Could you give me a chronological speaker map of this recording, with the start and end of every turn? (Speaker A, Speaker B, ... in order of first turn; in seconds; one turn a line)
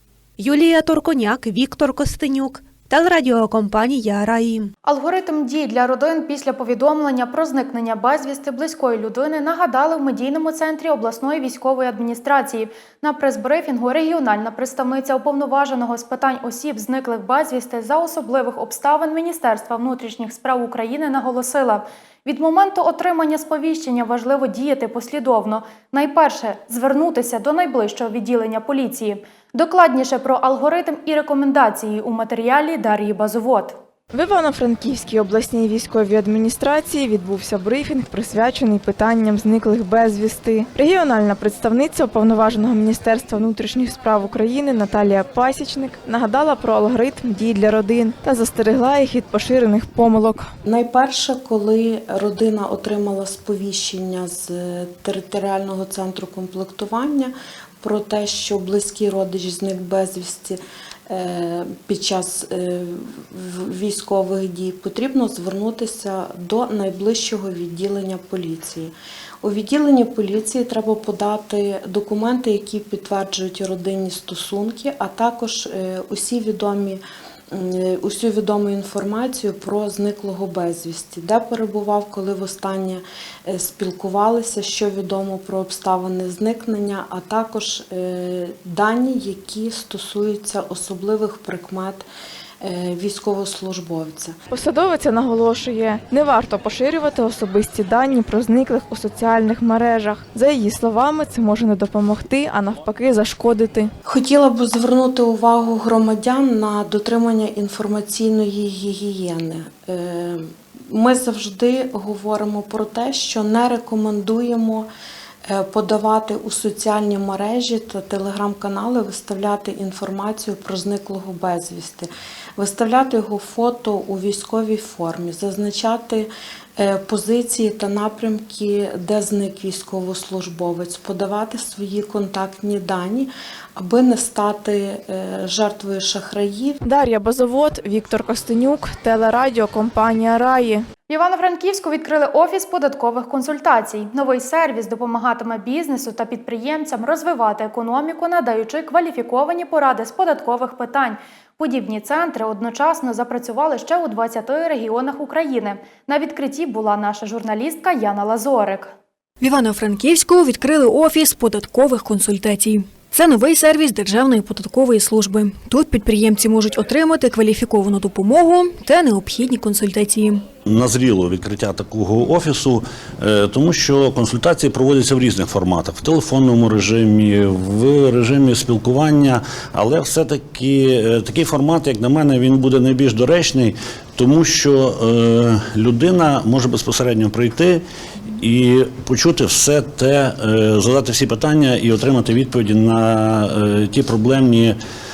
Speaker A: 0.4-4.7
Speaker B: 4.8-33.8
Speaker C: 34.1-50.5
Speaker D: 50.6-92.0
Speaker D: 92.6-94.4
Speaker C: 94.5-103.9
Speaker D: 104.0-114.9
Speaker D: 115.5-136.8
Speaker C: 136.8-140.8
Speaker B: 141.1-158.9
Speaker E: 159.4-170.4
Speaker F: 170.6-187.8
Speaker F: 188.4-194.8